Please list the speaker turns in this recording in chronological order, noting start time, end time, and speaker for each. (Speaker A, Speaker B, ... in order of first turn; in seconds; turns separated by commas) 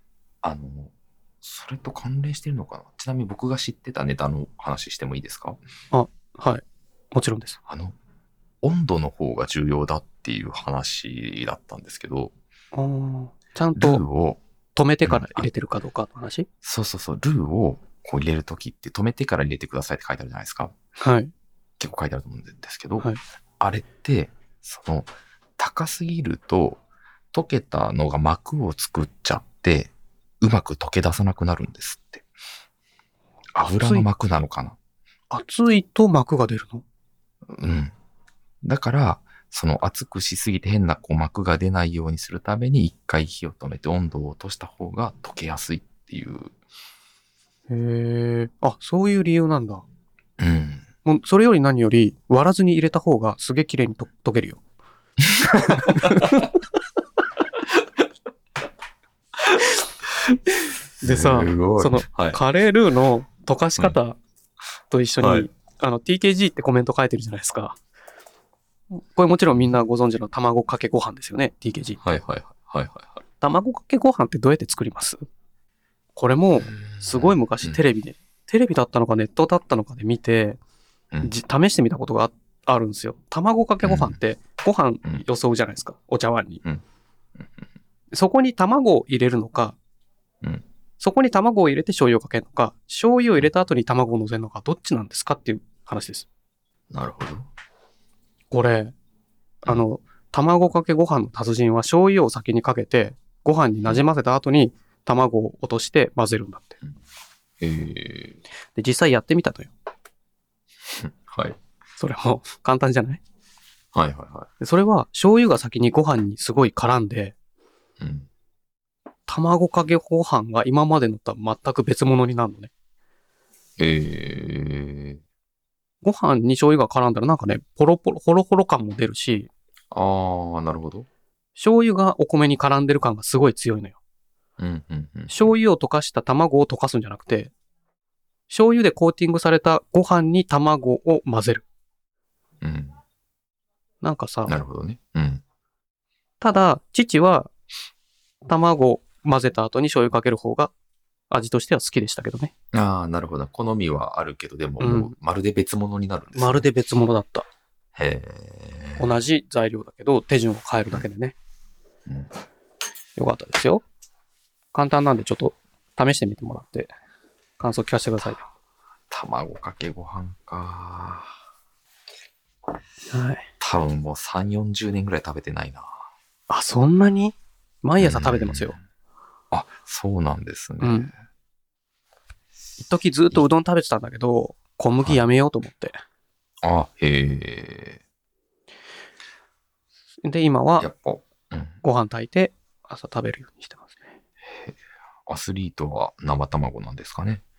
Speaker A: 0.4-5.6, Speaker B: 5.9-7.6, Speaker A: 7.7-8.0, Speaker A: 8.6-12.3, Speaker B: 12.7-14.0, Speaker A: 13.8-14.4, Speaker B: 14.7-16.5, Speaker A: 15.0-15.5, Speaker A: 16.6-20.7, Speaker B: 21.0-21.3, Speaker A: 21.8-26.8, Speaker A: 27.3-32.2, Speaker A: 33.5-34.8, Speaker B: 33.6-34.1, Speaker B: 35.3-36.8, Speaker A: 37.5-37.9, Speaker A: 38.6-46.5, Speaker B: 47.7-49.8, Speaker A: 50.4-50.8, Speaker B: 51.0-54.6, Speaker A: 55.2-56.5, Speaker B: 55.6-56.5, Speaker A: 61.0-62.4, Speaker B: 61.0-64.2, Speaker B: 64.9-67.8, Speaker A: 65.2-65.5, Speaker B: 68.9-72.0, Speaker A: 72.0-73.2, Speaker B: 73.4-75.2, Speaker B: 76.2-80.6, Speaker A: 76.7-77.8, Speaker B: 81.2-86.6, Speaker A: 83.8-84.2, Speaker B: 88.1-89.8, Speaker B: 91.0-96.2, Speaker A: 96.9-97.5, Speaker B: 98.5-98.9, Speaker B: 99.6-106.8, Speaker A: 107.6-108.4, Speaker B: 108.8-109.7, Speaker A: 110.9-111.6, Speaker B: 112.0-113.2, Speaker A: 113.9-114.5, Speaker B: 114.6-117.3, Speaker A: 118.0-118.3, Speaker B: 119.3-122.7, Speaker A: 123.8-125.2, Speaker B: 126.0-129.5, Speaker A: 129.9-131.1, Speaker B: 131.6-133.9, Speaker A: 134.6-135.5, Speaker B: 135.3-137.5, Speaker B: 138.5-141.6, Speaker A: 142.6-143.0, Speaker B: 144.0-144.6, Speaker A: 144.5-145.4, Speaker B: 146.4-147.5, Speaker B: 148.4-150.7, Speaker B: 151.3-152.5, Speaker A: 152.7-156.7, Speaker B: 154.8-155.1, Speaker B: 156.3-157.5, Speaker A: 157.9-159.1, Speaker B: 159.0-161.3, Speaker A: 162.1-162.3, Speaker B: 163.2-163.8, Speaker B: 164.7-166.9, Speaker B: 167.6-168.5, Speaker A: 169.1-171.3, Speaker B: 173.1-173.5, Speaker A: 173.6-176.0, Speaker B: 176.5-178.8, Speaker A: 178.0-178.8, Speaker A: 179.5-181.1, Speaker B: 180.8-181.1, Speaker B: 182.8-186.0, Speaker A: 186.6-188.0, Speaker B: 190.2-190.9, Speaker A: 190.8-191.8, Speaker B: 191.8-194.1, Speaker A: 194.5-197.4